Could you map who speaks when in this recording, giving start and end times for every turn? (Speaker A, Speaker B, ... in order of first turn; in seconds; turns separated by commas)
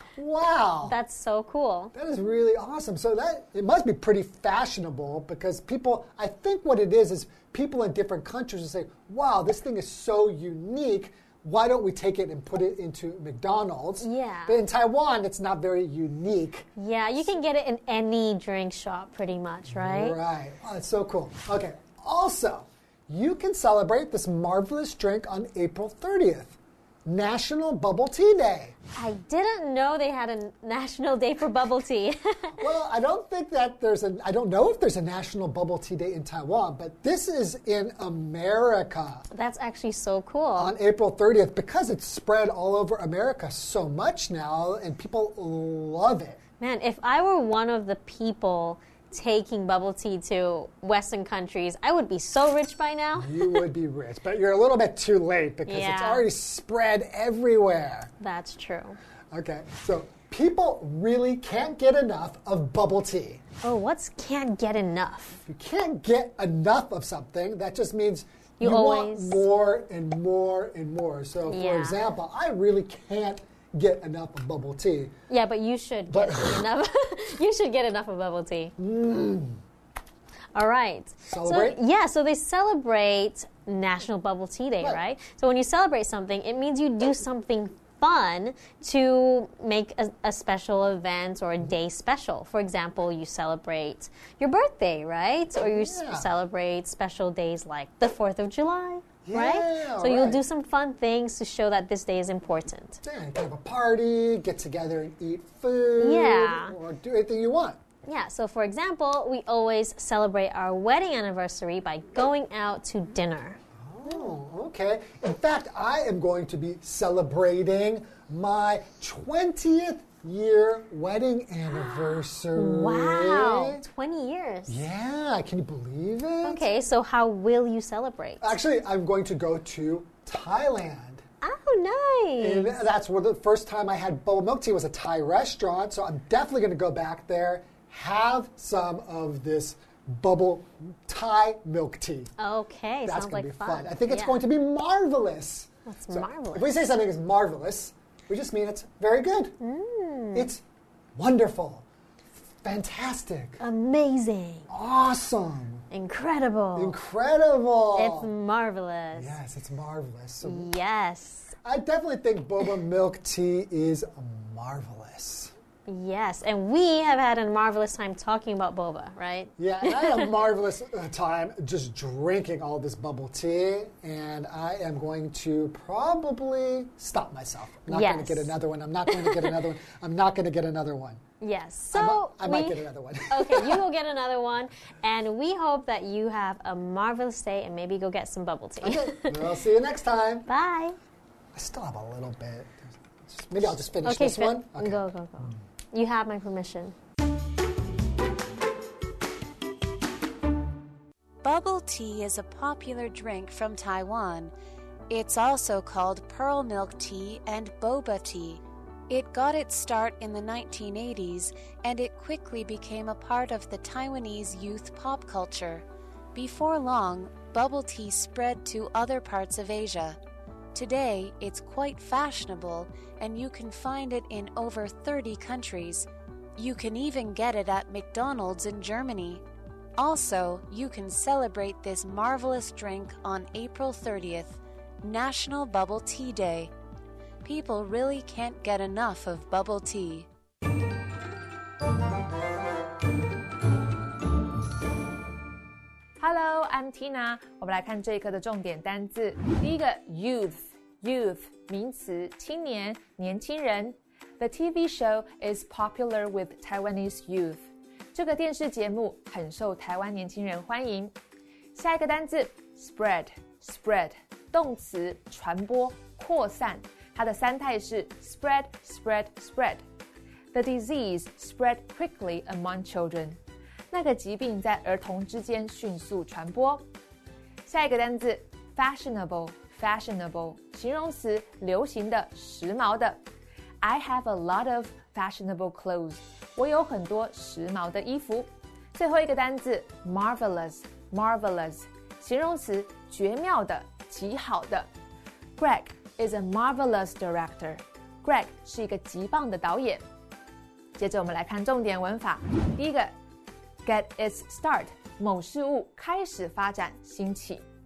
Speaker A: 0.2-1.0, Speaker B: 0.8-1.9, Speaker A: 1.9-16.7, Speaker B: 14.0-14.6, Speaker B: 16.8-20.2, Speaker A: 19.7-28.8, Speaker B: 29.0-32.6, Speaker A: 32.6-39.2, Speaker B: 39.3-40.7, Speaker A: 40.6-46.4, Speaker B: 46.6-53.6, Speaker A: 53.2-58.1, Speaker B: 55.7-56.2, Speaker B: 58.2-59.0, Speaker A: 59.3-63.4, Speaker B: 63.6-65.4, Speaker A: 65.5-75.1, Speaker B: 68.6-69.4, Speaker B: 71.5-72.0, Speaker B: 75.3-78.7, Speaker A: 76.1-76.7, Speaker A: 78.8-79.6, Speaker B: 80.5-103.0, Speaker A: 81.3-81.8, Speaker A: 95.6-96.3, Speaker A: 99.2-100.4, Speaker A: 103.0-107.8, Speaker B: 106.0-106.8, Speaker B: 108.1-114.3, Speaker A: 113.8-123.8, Speaker B: 122.5-124.8, Speaker A: 124.7-126.7, Speaker B: 126.4-128.6, Speaker A: 128.4-131.2, Speaker B: 131.4-132.8, Speaker A: 132.4-142.3, Speaker B: 142.4-144.4, Speaker A: 143.1-149.6, Speaker B: 145.9-146.8, Speaker B: 149.6-150.5, Speaker A: 150.3-150.6, Speaker A: 151.2-151.9, Speaker A: 152.5-153.6, Speaker B: 153.6-154.7, Speaker A: 154.7-155.9, Speaker B: 155.9-156.9, Speaker A: 156.8-158.3, Speaker B: 157.9-159.3, Speaker A: 159.1-160.7, Speaker B: 160.4-161.6, Speaker A: 161.6-165.5, Speaker B: 165.9-170.3, Speaker A: 169.6-181.2, Speaker B: 177.9-178.5, Speaker B: 179.1-179.5, Speaker B: 181.4-189.4, Speaker A: 181.9-183.8, Speaker A: 188.8-190.5, Speaker B: 190.5-191.0, Speaker A: 191.6-195.6, Speaker B: 194.0-196.9, Speaker C: 201.4-204.5, Speaker C: 205.1-220.2, Speaker C: 220.7-229.4, Speaker C: 230.0-236.7, Speaker C: 237.4-240.3, Speaker D: 246.2-261.1, Speaker D: 261.8-269.8, Speaker D: 270.5-273.4, Speaker D: 273.9-276.9, Speaker D: 277.6-283.2, Speaker D: 283.8-294.9, Speaker D: 295.6-300.0, Speaker D: 301.0-303.1, Speaker D: 303.8-307.6